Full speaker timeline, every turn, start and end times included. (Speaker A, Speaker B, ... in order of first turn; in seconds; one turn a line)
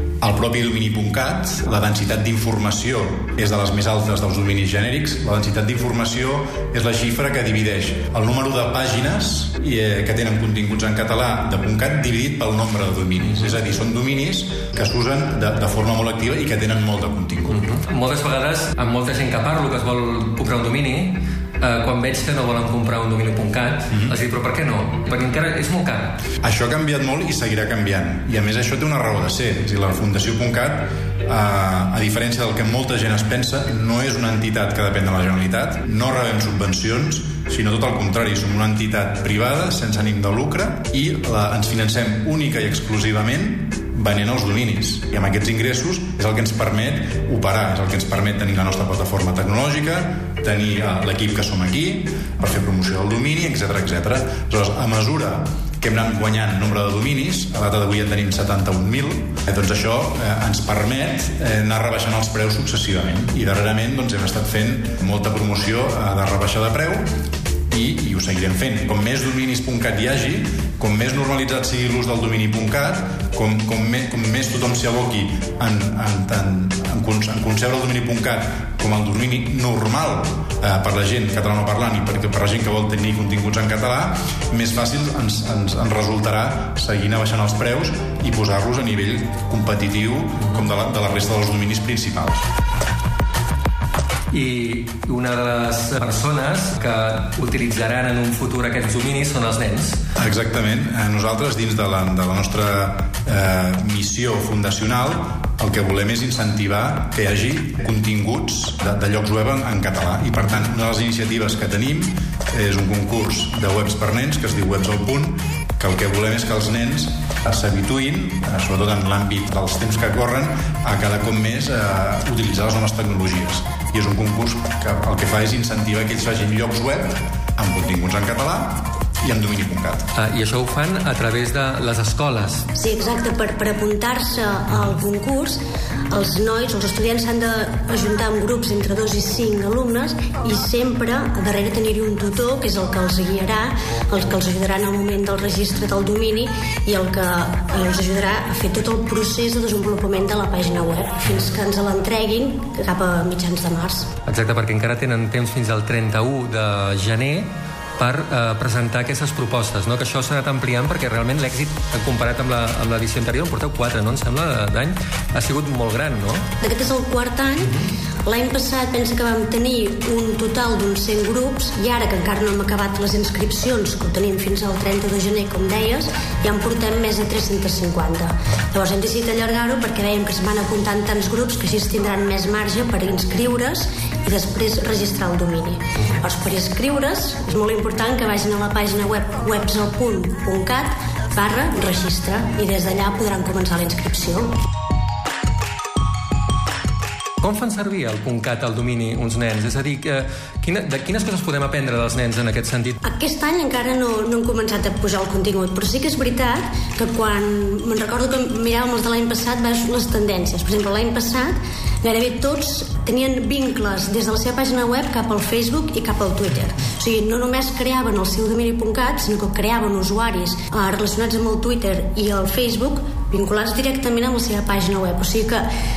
Speaker A: 0.2-17.6
Speaker B: 17.5-26.2
Speaker A: 26.4-67.1
Speaker A: 67.7-92.5
Speaker B: 94.3-100.0
Speaker A: 100.2-130.1
Speaker B: 130.2-132.7
Speaker C: 132.8-135.6
Speaker C: 136.1-154.1
Speaker B: 154.3-166.5
Speaker C: 166.6-194.5
Speaker B: 167.6-167.9
Speaker B: 197.4-203.0
Speaker C: 203.0-225.7